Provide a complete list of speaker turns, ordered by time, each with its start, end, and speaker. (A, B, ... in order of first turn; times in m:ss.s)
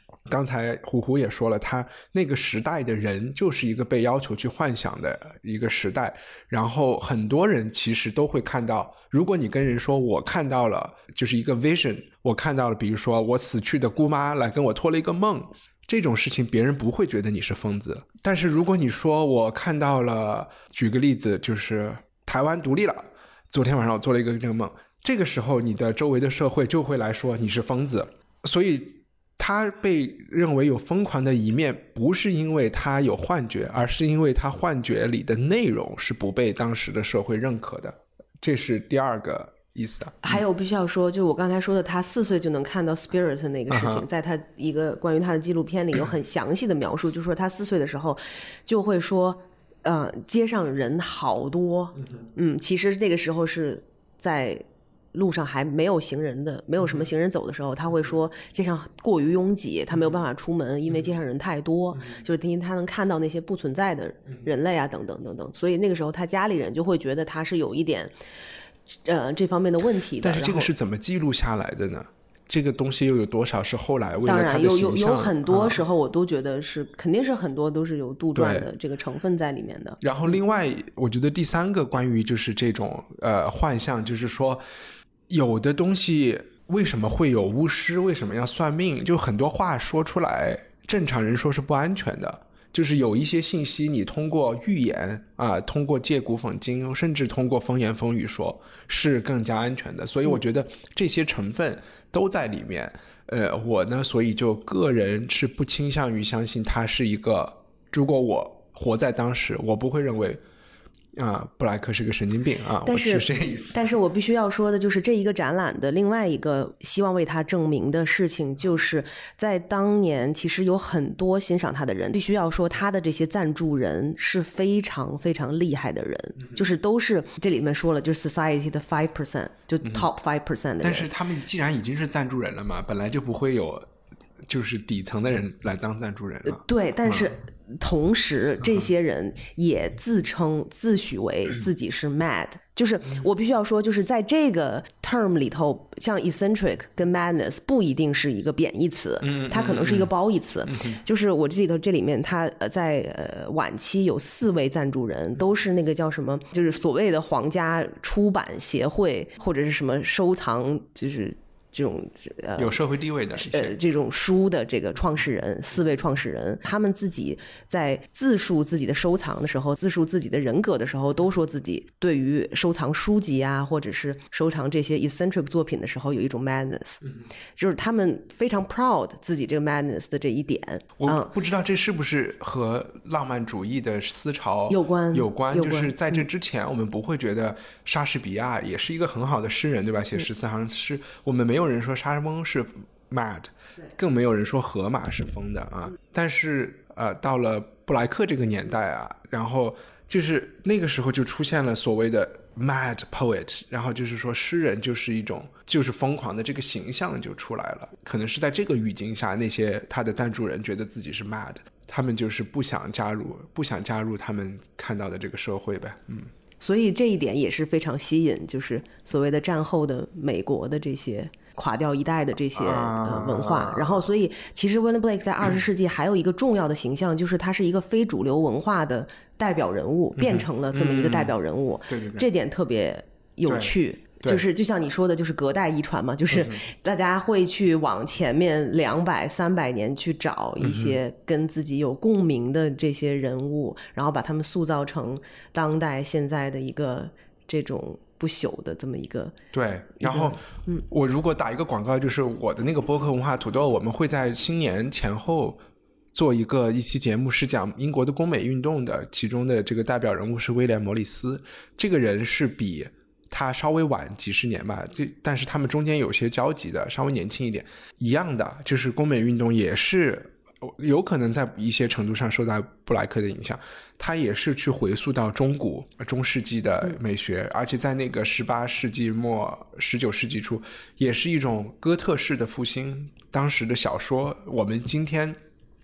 0:00.3-0:40.4 A
0:40.2-1:08.1 B
0:43.7-0:44.0 A
1:09.0-1:10.7 B
1:10.2-1:15.8 A
1:14.2-1:20.0 B
1:18.3-1:18.7 A
1:20.0-1:24.6 A
1:25.3-1:50.4 A
1:51.1-1:53.8 A
1:52.8-2:11.1 B
2:09.8-2:10.1 A
2:10.8-2:13.9 A
2:14.5-2:17.3 A
2:16.4-2:42.8 B
2:29.2-2:30.1 A
2:30.7-2:31.0 A
2:42.6-2:43.8 A
2:43.3-3:01.3 B
3:01.0-3:36.3 A
3:04.7-3:06.2 B
3:36.6-4:09.3 B
3:42.6-3:44.0 A
3:50.2-3:51.4 A
3:51.9-3:52.3 A
3:53.4-3:54.4 A
3:56.3-3:56.6 A
4:00.6-4:01.0 A
4:09.5-4:15.6 A
4:10.0-4:10.8 B
4:16.1-4:45.4 A